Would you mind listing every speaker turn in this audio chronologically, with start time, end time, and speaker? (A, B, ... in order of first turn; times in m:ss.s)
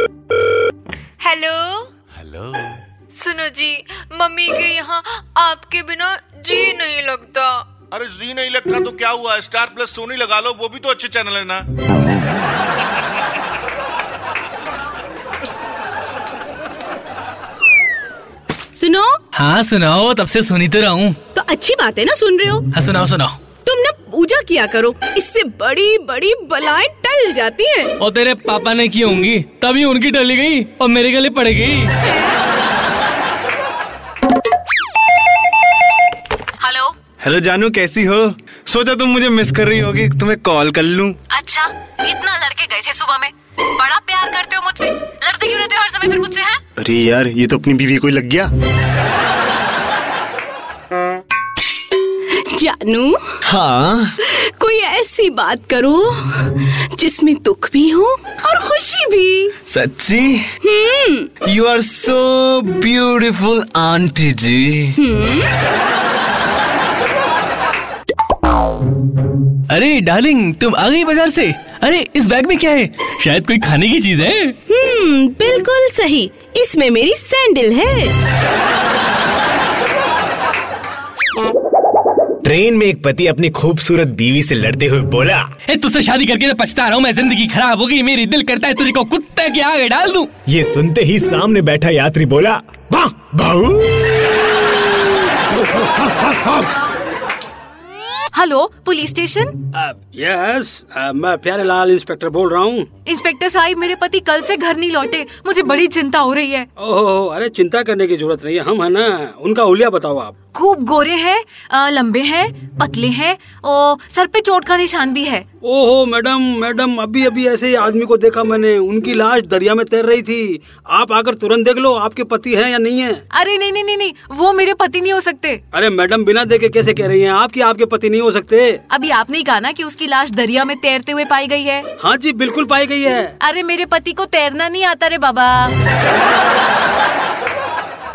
0:01.2-0:01.9 A
0:03.2-0:07.7 A
0:07.9-0:11.6 B
0:18.8-0:19.2 C
0:19.3-0:21.2 D
0:21.3-0:22.7 C
0:22.7-0:23.4 D
0:23.6-0:27.9 C
0:28.0-0:31.9 D
0:36.6-0:36.9 E
0:37.2-0:41.2 F
0:41.3-0:46.6 E
0:46.8-0:48.5 F
0:52.3-0:53.4 C
0:54.2-0:59.6 C
0:59.7-1:00.4 G
1:00.6-1:01.3 C
1:01.6-1:02.9 G
1:05.0-1:05.5 C
1:09.7-1:14.6 D
1:14.7-1:18.1 C
1:22.4-1:25.5 G
1:25.7-1:30.3 D
1:30.5-1:34.0 G
1:38.3-1:39.5 E
1:39.7-1:42.9 H
1:43.0-1:46.7 E
1:46.8-1:50.3 H
1:50.5-1:55.4 E
1:55.6-2:03.2 H
2:03.3-2:05.6 E
2:05.7-2:08.8 H
2:08.9-2:11.8 E
2:12.0-2:13.3 H
2:13.4-2:15.7 E